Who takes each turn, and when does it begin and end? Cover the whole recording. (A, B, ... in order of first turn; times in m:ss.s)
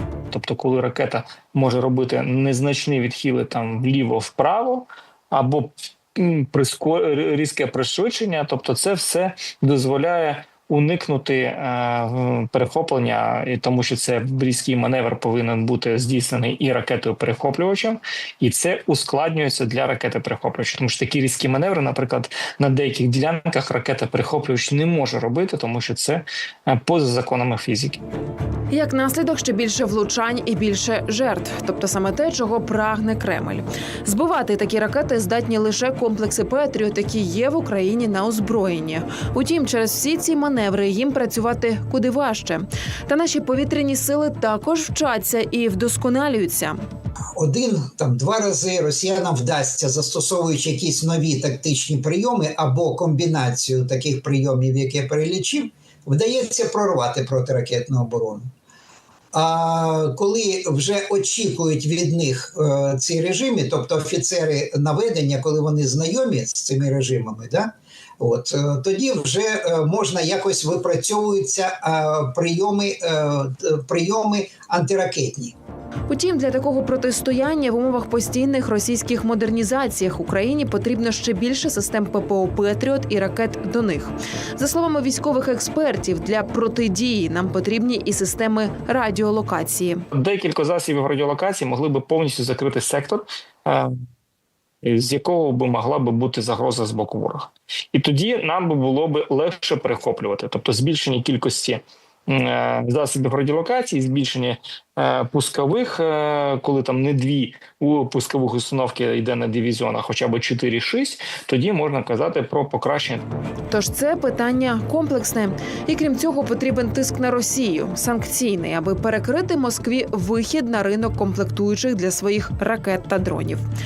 0:00.3-0:28.0 A
0:28.7-0:46.8 B
0:47.4-0:58.5 C
0:59.3-1:15.6 C
1:16.1-1:30.0 B
1:30.1-1:34.0 A
1:34.8-1:53.2 A
1:53.7-2:03.6 B